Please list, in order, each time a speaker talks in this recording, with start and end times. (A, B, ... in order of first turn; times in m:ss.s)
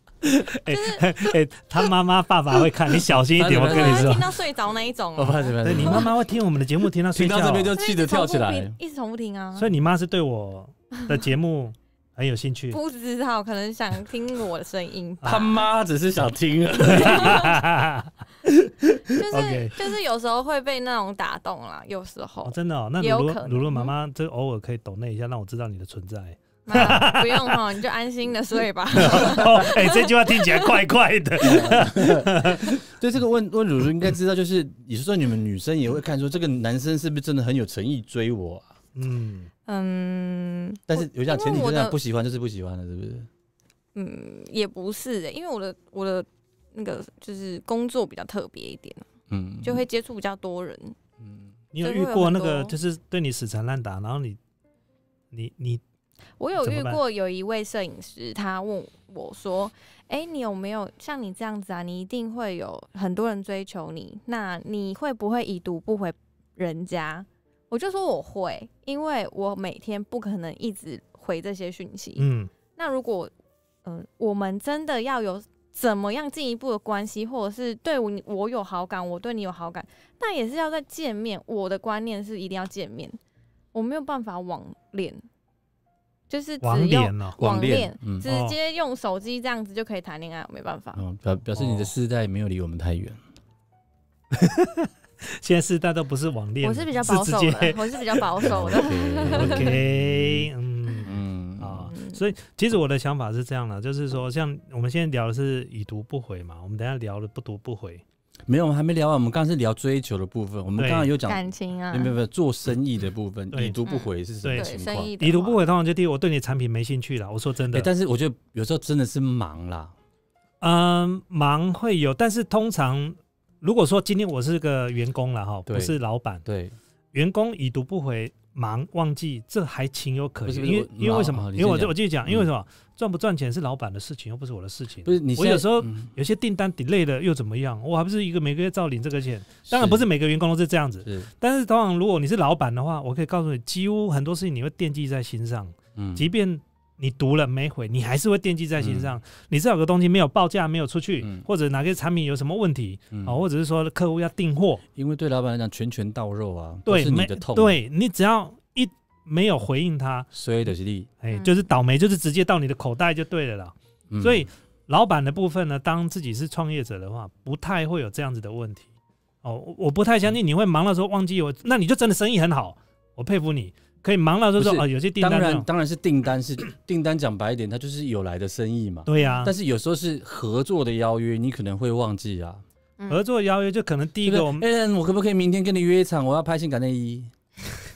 0:00.2-0:04.3 A
0:00.7-0:01.1 B
0:03.3-0:04.3 C
0:03.6-0:06.1 B
0:05.2-0:06.1 C
0:05.6-0:07.7 A
0:07.1-0:08.8 C
0:07.7-0:09.7 B
0:09.6-0:12.8 A
0:12.7-0:15.6 B
0:15.2-0:15.5 A
0:15.2-0:17.5 C
0:16.9-0:19.8 A
0:17.0-0:17.5 B
0:19.1-0:23.9 B
0:22.4-0:27.6 A
0:26.6-0:30.7 B
0:28.9-0:32.7 A
0:31.4-0:38.7 C
0:39.0-0:39.5 A
0:39.6-0:42.0 B
0:40.9-0:43.3 C
0:43.9-0:49.1 B
0:49.3-0:49.8 C
0:49.6-0:51.0 B
0:51.2-0:51.5 C
0:51.7-0:54.4 A
0:51.8-0:52.7 B
0:55.3-0:55.8 A
0:56.4-1:13.3 B
0:56.6-0:57.0 A
1:12.2-1:12.5 A
1:13.8-1:23.2 B
1:23.7-1:25.2 B
1:26.3-1:31.0 B
1:26.6-1:27.4 A
1:27.4-1:28.2 C
1:28.2-1:28.6 A
1:31.0-1:33.2 C
1:31.6-1:31.9 A
1:34.3-1:38.7 A
1:36.6-1:39.8 B
1:38.4-1:40.5 C
1:39.2-1:48.0 A
1:41.0-1:41.9 C
1:41.9-1:42.2 B
1:48.5-1:55.1 C
1:50.8-1:51.1 A
1:51.2-1:52.1 B
1:53.5-1:53.8 A
1:53.8-1:55.6 B
1:54.4-1:57.9 A
1:57.7-1:59.9 C
2:00.6-2:06.4 A
2:05.7-2:06.8 C
2:07.1-2:34.8 A
2:10.4-2:12.5 C
2:15.0-2:16.1 C
2:19.7-2:20.0 C
2:21.0-2:21.3 C
2:25.9-2:26.3 C
2:28.8-2:29.1 C
2:31.2-2:31.5 C
2:33.1-2:33.4 C
2:34.9-2:37.8 C
2:36.8-2:40.3 A
2:40.3-2:41.1 C
2:41.2-2:48.9 A
2:41.3-2:41.6 B
2:44.1-2:44.4 C
2:49.4-2:55.7 A
2:54.6-3:02.6 C
2:59.0-2:59.5 A
2:59.2-2:59.4 B
3:03.1-3:04.6 A
3:04.2-3:07.3 C